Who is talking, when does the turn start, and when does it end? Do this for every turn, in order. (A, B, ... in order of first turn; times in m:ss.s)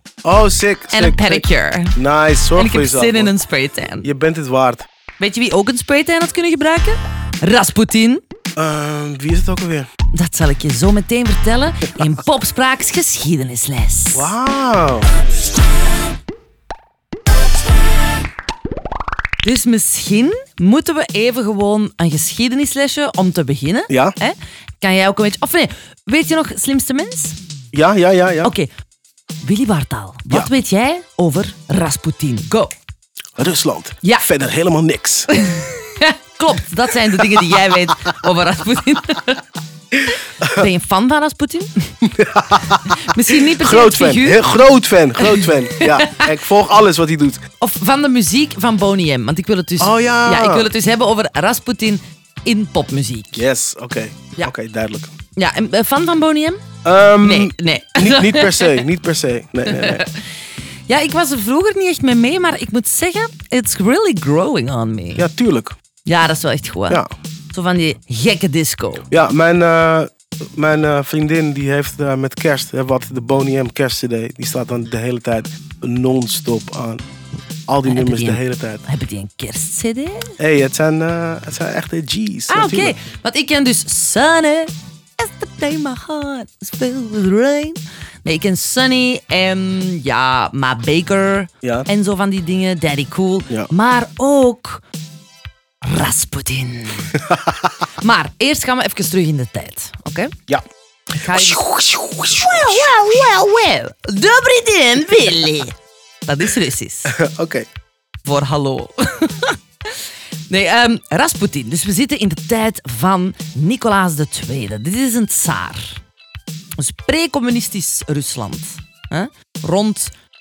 0:00.2-0:01.4 A
0:00.9-0:02.0 B
0:02.0-0:03.3 A
0:02.6-0:04.1 B
0:04.0-0:04.9 A
0:05.2-0:08.2 B
0:08.6-0:09.9 A
0:10.1-0:14.3 B
0:14.1-0:15.1 A
0:19.4-0:27.4 B
0:23.9-0:24.2 A
0:27.7-0:28.5 A
0:29.4-0:32.7 B
0:33.4-0:35.3 A
0:35.3-0:39.4 B
0:37.1-0:37.9 A
0:40.4-0:41.9 B
0:42.0-0:47.4 A
0:42.9-0:44.5 B
0:45.2-0:46.3 B
0:47.6-0:53.4 B
0:49.8-0:50.7 A
0:53.4-0:55.1 A
0:55.4-0:56.6 B
0:56.8-1:00.1 A
0:57.2-0:58.8 B
0:59.7-1:00.2 B
1:00.9-1:05.3 B
1:05.2-1:05.8 A
1:06.1-1:09.0 B
1:09.1-1:17.0 A
1:17.7-1:18.8 A
1:17.8-1:20.4 B
1:20.4-1:23.0 A
1:22.5-1:34.8 B
1:31.6-1:31.9 A
1:35.8-1:37.2 B
1:37.2-1:37.7 A
1:38.0-1:40.3 B
1:41.2-1:41.7 B
1:41.3-1:42.9 A
1:42.3-1:45.8 B
1:46.3-1:47.1 B
1:47.1-1:47.7 A
1:48.2-1:56.0 B
1:56.8-2:00.1 B